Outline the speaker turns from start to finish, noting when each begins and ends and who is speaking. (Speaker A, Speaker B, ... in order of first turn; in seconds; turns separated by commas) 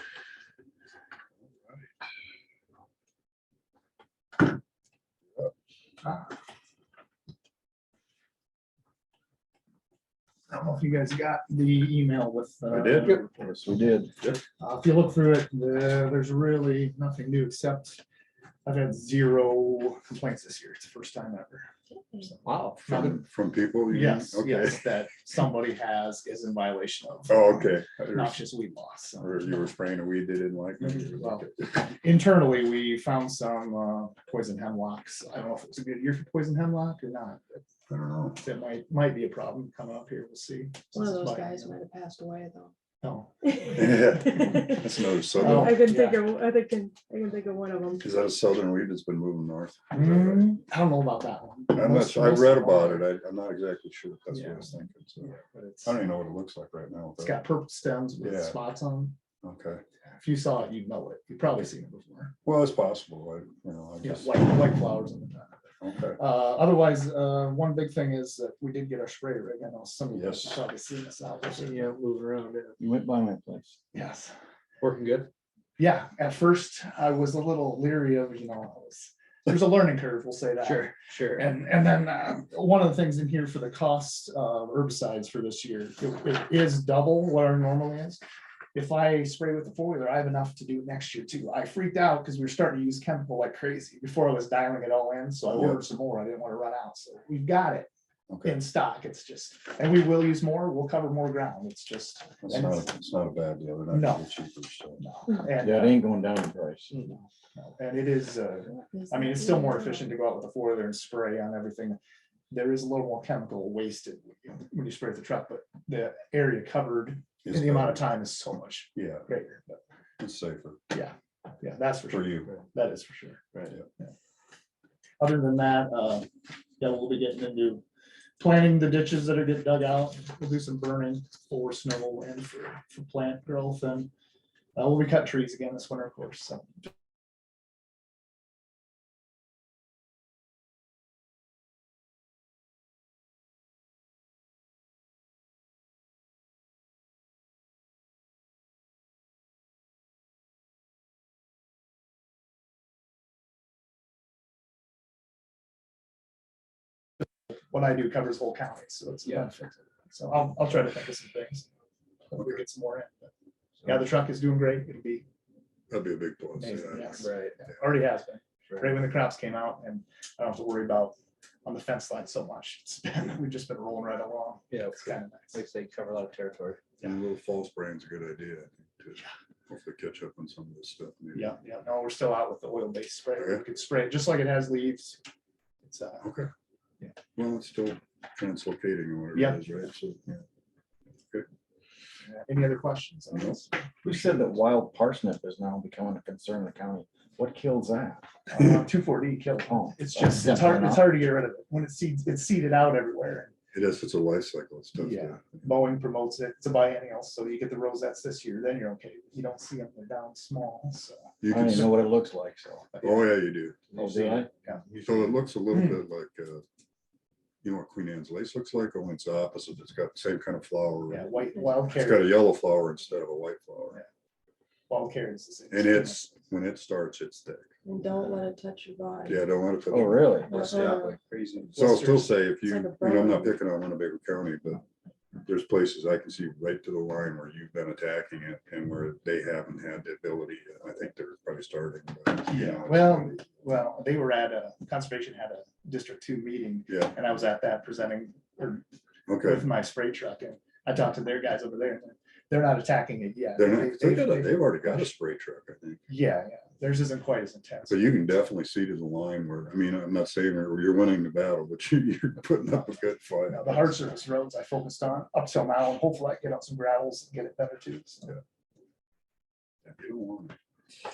Speaker A: 6.0-6.3, Speaker A: 10.5-13.2, Speaker B: 12.7-14.4, Speaker C: 13.2-14.2, Speaker A: 14.6-18.0, Speaker A: 18.7-23.2, Speaker C: 22.4-23.1, Speaker B: 22.9-24.9, Speaker A: 23.9-29.7, Speaker B: 27.3-28.4, Speaker B: 29.2-31.8, Speaker A: 30.8-37.6, Speaker B: 37.9-38.4, Speaker A: 38.4-41.7, Speaker D: 40.9-42.7, Speaker A: 43.0-44.0, Speaker D: 43.6-48.1, Speaker B: 43.7-45.9, Speaker A: 45.3-46.2, Speaker B: 48.0-50.5, Speaker A: 49.9-53.1, Speaker B: 51.7-57.4, Speaker A: 54.3-56.0, Speaker A: 57.2-59.2, Speaker B: 58.2-58.6, Speaker B: 59.4-59.8, Speaker A: 60.2-62.4, Speaker B: 62.5-64.5, Speaker A: 64.0-65.6, Speaker B: 65.8-66.2, Speaker A: 66.1-72.0, Speaker B: 70.1-70.6, Speaker E: 71.6-72.8, Speaker C: 72.8-73.8, Speaker A: 73.9-74.3, Speaker E: 74.8-75.3, Speaker A: 75.8-88.2, Speaker E: 80.6-81.5, Speaker A: 88.7-97.9, Speaker B: 95.5-95.8, Speaker B: 98.3-98.6, Speaker A: 98.4-102.9, Speaker B: 102.4-105.0, Speaker A: 103.9-104.3, Speaker A: 105.0-106.0, Speaker C: 105.6-107.1, Speaker E: 106.9-107.2, Speaker A: 107.5-112.0, Speaker D: 108.8-110.1, Speaker A: 112.5-119.8, Speaker B: 117.4-118.0, Speaker B: 119.0-119.3, Speaker B: 120.2-120.8, Speaker A: 120.9-124.1, Speaker B: 122.1-122.5, Speaker A: 125.2-127.8, Speaker A: 128.4-134.1, Speaker A: 134.8-136.9, Speaker A: 157.7-161.7, Speaker A: 162.3-163.3, Speaker A: 163.8-165.3, Speaker B: 165.9-167.3, Speaker A: 166.6-175.6, Speaker E: 167.2-167.6, Speaker E: 174.7-176.8, Speaker B: 177.0-181.5, Speaker A: 181.3-185.2, Speaker B: 183.4-183.6, Speaker A: 185.8-186.3, Speaker B: 186.2-186.5, Speaker B: 187.3-190.4, Speaker A: 189.3-189.9, Speaker A: 192.2-194.1, Speaker B: 193.3-193.6, Speaker C: 194.0-198.2, Speaker A: 198.5-203.5, Speaker C: 199.7-201.1, Speaker B: 203.7-205.7, Speaker A: 205.0-211.3, Speaker B: 211.4-211.9, Speaker C: 211.5-212.9, Speaker A: 212.9-213.3, Speaker B: 213.0-213.8, Speaker E: 213.9-215.4, Speaker C: 213.9-214.5, Speaker B: 215.0-216.6, Speaker B: 217.6-221.3, Speaker A: 221.1-222.5, Speaker B: 221.9-224.0, Speaker A: 224.9-226.3, Speaker B: 225.7-227.7, Speaker D: 227.8-229.5, Speaker B: 229.3-230.4, Speaker C: 229.9-230.7, Speaker D: 230.5-231.2, Speaker E: 230.5-232.0, Speaker B: 231.8-234.8, Speaker A: 231.8-232.2, Speaker D: 232.5-233.6, Speaker B: 235.5-243.4, Speaker A: 242.5-248.8, Speaker B: 249.3-249.7, Speaker A: 249.4-255.1, Speaker B: 253.6-256.0, Speaker A: 256.1-258.1, Speaker B: 257.9-264.0, Speaker A: 263.5-268.4, Speaker B: 269.9-270.6